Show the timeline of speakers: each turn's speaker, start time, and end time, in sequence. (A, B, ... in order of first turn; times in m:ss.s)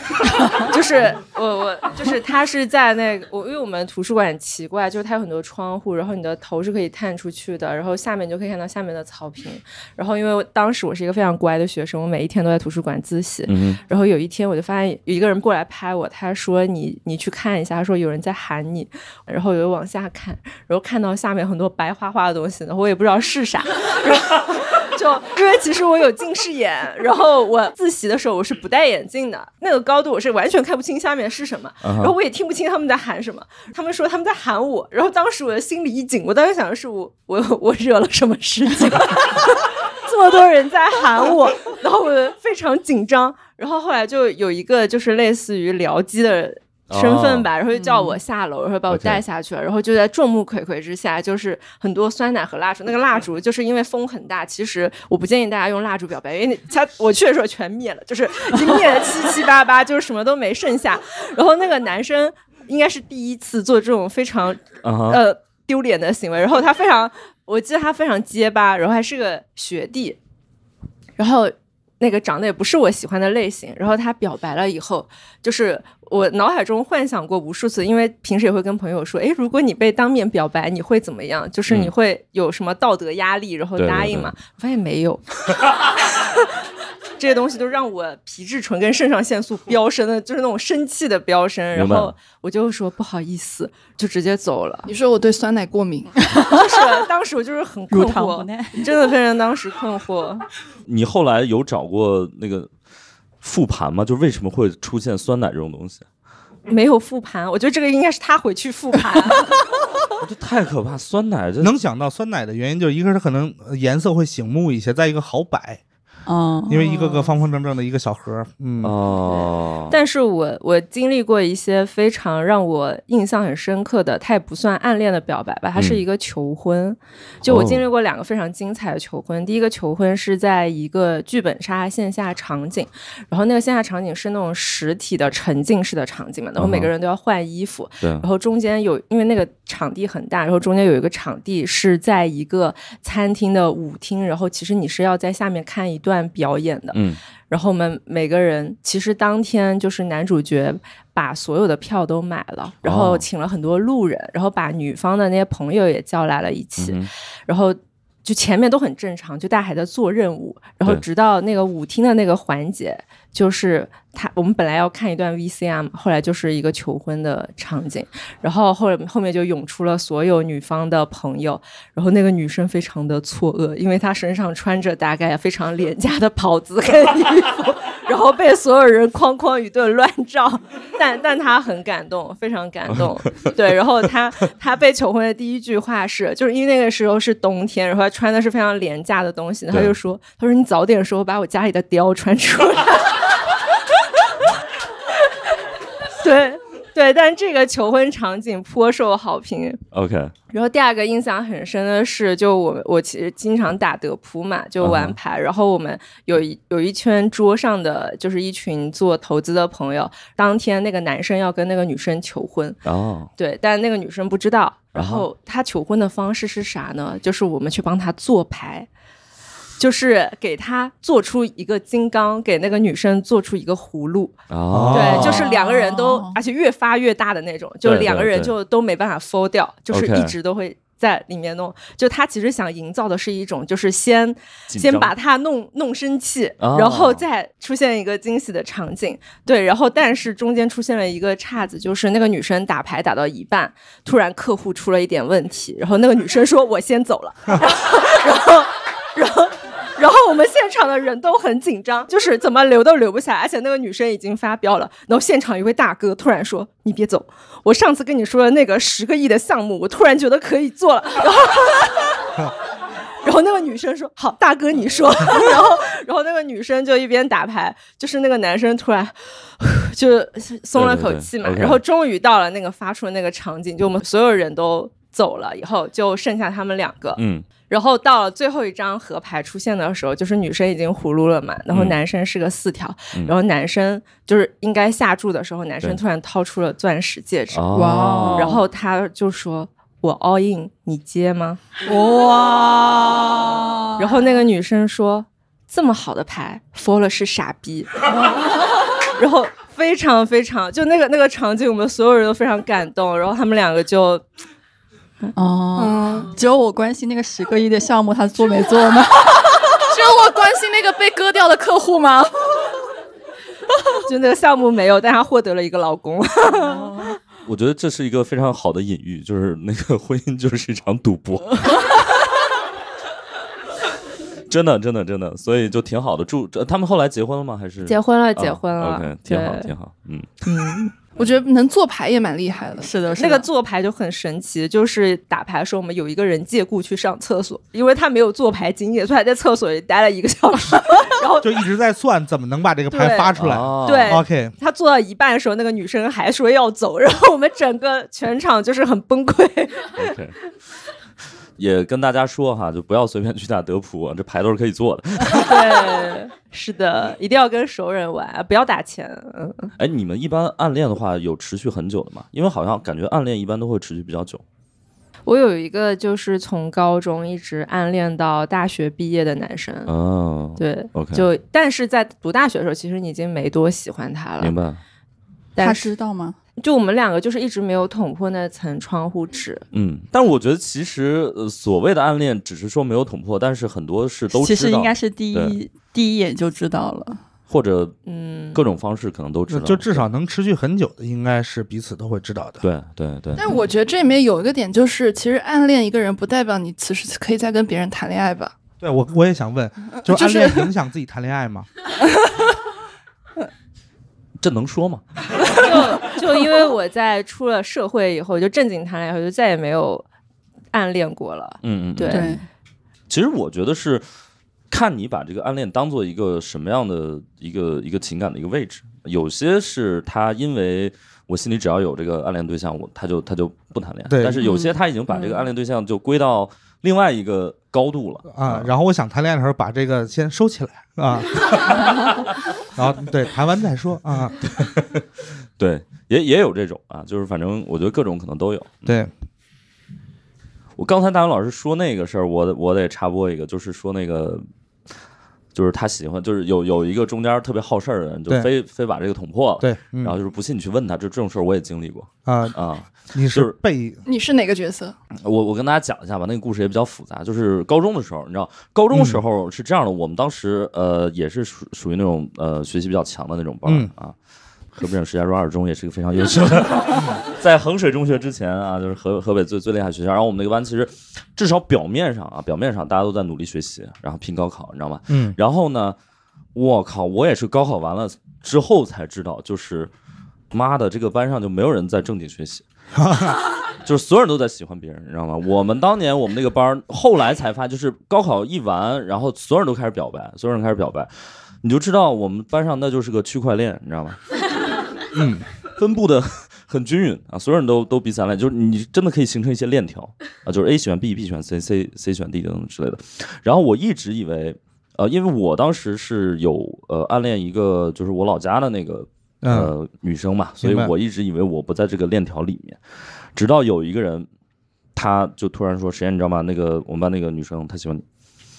0:00.5-1:10.2 A
0:13.5-0:13.8 B
0:31.8-0:32.1 B
0:46.9-0:47.5 B
0:47.8-0:48.2 C
0:48.9-0:49.2 B
1:04.8-1:05.2 B
1:11.2-1:25.2 A
1:23.8-1:24.3 B
1:26.2-1:26.5 A
1:27.2-1:34.9 A
1:31.7-1:32.1 B
1:34.9-1:36.2 D
1:36.2-1:36.6 C
1:36.5-1:40.4 A
1:37.9-1:38.9 C
1:40.8-1:42.7 B
1:43.4-1:46.0 B
1:46.7-1:49.6 A
1:50.2-1:51.7 B
1:51.6-1:55.8 E
1:56.3-1:57.4 C
1:56.7-1:58.9 E
1:58.8-1:59.9 B
1:59.3-3:13.3 A
2:05.8-2:06.0 B
2:07.4-2:07.8 B
2:16.6-2:16.9 B
2:26.9-2:27.2 B
2:32.8-2:33.2 B
2:36.8-2:37.1 B
3:16.2-3:19.8 A
3:19.9-3:20.3 B
3:20.5-3:32.8 A
3:24.8-3:25.2 B
3:32.8-3:33.3 B
3:33.4-3:38.9 A
3:34.9-3:35.2 B
3:39.8-4:22.3 A
3:44.5-3:45.4 B
3:44.7-3:45.4 E
3:45.1-3:46.4 C
3:47.8-3:48.5 B
3:49.9-3:50.3 B
3:54.7-3:55.1 B
3:56.6-3:57.2 B
4:23.2-4:47.7 A
4:30.7-4:31.8 B
4:37.2-4:37.4 B
4:41.7-4:42.0 B
4:47.5-4:48.5 B
4:47.7-4:48.6 C
4:48.3-4:51.6 A
4:51.8-4:54.0 C
4:54.0-4:58.0 A
4:59.2-5:04.2 A
5:05.4-5:09.6 C
5:05.8-5:06.3 D
5:09.9-5:12.4 D
5:14.0-5:17.0 A
5:16.5-5:17.2 C
5:17.4-5:21.8 B
5:24.5-5:30.4 B
5:27.8-5:29.7 A
5:30.4-5:30.9 A
5:31.2-5:32.9 D
5:32.8-5:33.4 C
5:33.2-5:41.6 A
5:41.4-5:44.5 E
5:42.9-5:50.1 A
5:43.4-5:44.2 B
5:50.0-5:50.4 B
5:51.6-5:55.6 B
5:55.3-5:59.7 A
5:59.8-6:04.4 B
6:05.2-6:09.9 A
6:09.9-6:11.2 B
6:10.6-6:14.5 A
6:14.4-6:14.8 B
6:15.6-6:15.9 A
6:15.6-6:16.3 C
6:16.6-6:19.6 A
6:19.7-6:25.6 B
6:24.3-6:27.2 C
6:27.5-6:27.9 B
6:28.0-6:28.6 A
6:28.5-6:30.0 B
6:29.5-6:32.6 E
6:32.6-6:33.4 B
6:33.4-6:38.5 D
6:38.8-6:41.7 E
6:40.0-6:40.7 D
6:44.4-6:45.0 B
6:45.5-6:50.0 A
6:50.7-6:52.4 A
6:51.6-6:52.3 B
6:52.1-6:52.4 C
6:53.1-6:54.0 B
6:54.7-7:08.7 B
7:04.1-7:04.4 E
7:08.3-7:11.9 E
7:12.7-7:14.4 E
7:14.6-7:15.0 B
7:15.6-7:18.9 B
7:18.8-7:19.1 E
7:20.8-7:24.4 B
7:25.5-7:33.6 B
7:29.6-7:30.1 E
7:32.2-7:34.0 E
7:34.0-7:35.0 D
7:35.2-7:44.1 B
7:38.9-7:39.2 E
7:43.6-7:43.9 E
7:44.7-7:56.0 B
7:55.1-7:55.4 E
7:56.5-7:59.9 B
8:00.5-8:02.6 B
8:02.9-8:03.4 E
8:03.8-8:11.1 B
8:11.6-8:14.2 B
8:15.1-8:15.4 E
8:15.8-8:32.8 B
8:29.4-8:29.7 E
8:30.6-8:30.9 E
8:33.3-8:34.3 B
8:34.9-8:38.0 B